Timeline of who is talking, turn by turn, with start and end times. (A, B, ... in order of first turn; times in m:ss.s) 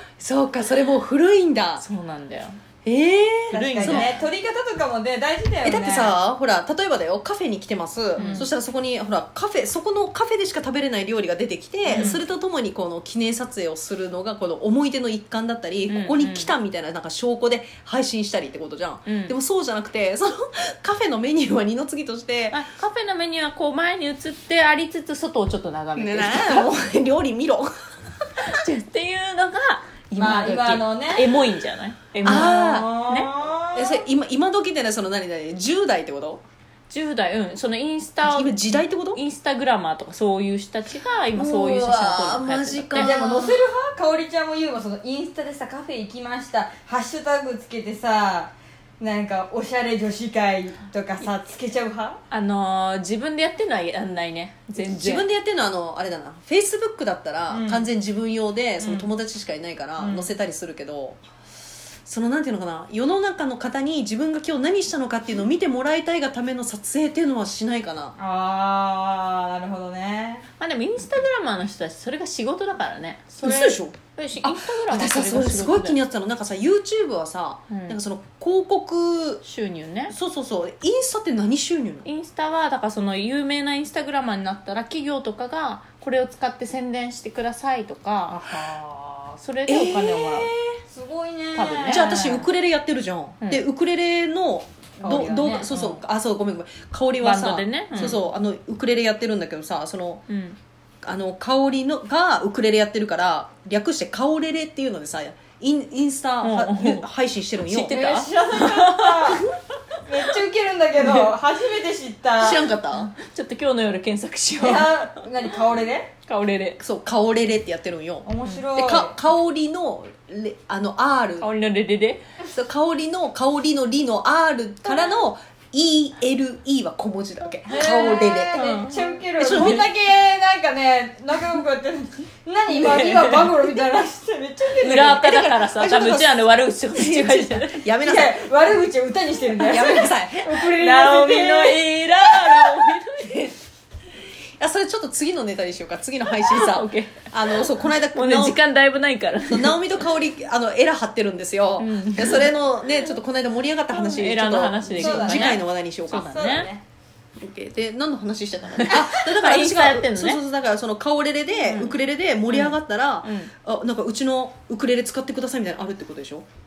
0:00.2-0:01.8 A
0:01.8-0:02.6 B
0:02.8-0:04.1 A
0:03.5-0:06.1 C
0:03.8-0:04.2 B
0:05.6-0:22.6 A
0:08.2-0:08.5 C
0:08.2-0:08.5 B
0:11.9-0:12.2 B
0:15.9-0:16.5 B
0:19.0-0:19.3 B
0:22.5-0:26.7 B
0:26.0-0:27.7 A
0:28.4-0:33.3 B
0:30.2-0:31.3 C
0:32.2-0:32.9 A
0:32.2-0:34.0 C
0:33.7-0:36.4 A
0:36.9-0:43.2 B
0:38.2-0:39.2 A
0:41.3-0:43.6 A
0:42.9-0:52.2 C
0:52.3-0:55.3 B
0:54.8-1:01.2 A
0:57.5-0:57.9 C
0:58.8-0:59.1 B
1:00.0-1:00.3 C
1:02.0-1:08.1 A
1:08.2-1:10.4 C
1:10.6-1:16.0 B
1:13.4-1:19.4 A
1:17.7-1:18.0 B
1:19.4-1:20.1 B
1:20.1-1:22.0 A
1:22.0-1:30.5 B
1:29.7-1:30.8 A
1:30.9-1:32.1 C
1:31.5-1:32.5 B
1:31.9-1:40.2 A
1:35.0-1:35.7 C
1:35.7-1:36.0 B
1:37.2-1:38.3 B
1:40.3-1:40.6 B
1:41.0-1:48.0 A
1:46.4-1:47.0 B
1:47.6-1:49.4 B
1:47.9-1:49.4 C
1:50.0-1:52.6 C
1:51.0-1:51.3 B
1:52.4-1:53.1 A
1:52.9-1:55.1 B
1:54.6-1:56.1 C
1:56.2-1:56.8 B
1:56.8-2:01.5 A
1:58.2-1:59.2 C
2:01.4-2:02.2 B
2:02.5-2:08.6 A
2:07.7-2:15.4 C
2:07.7-2:09.8 B
2:09.4-2:09.9 A
2:12.7-2:13.6 B
2:14.8-2:17.9 B
2:14.9-2:18.4 A
2:17.9-2:21.9 C
2:19.6-2:20.8 A
2:20.8-2:23.5 B
2:22.5-2:22.8 C
2:24.6-2:28.6 A
2:26.3-2:30.0 B
2:29.5-2:36.3 A
2:31.8-2:32.6 B
2:33.9-2:36.7 B
2:35.0-2:35.6 C
2:36.2-2:36.8 C
2:37.4-2:46.4 A
2:38.8-2:40.4 B
2:41.6-2:43.5 B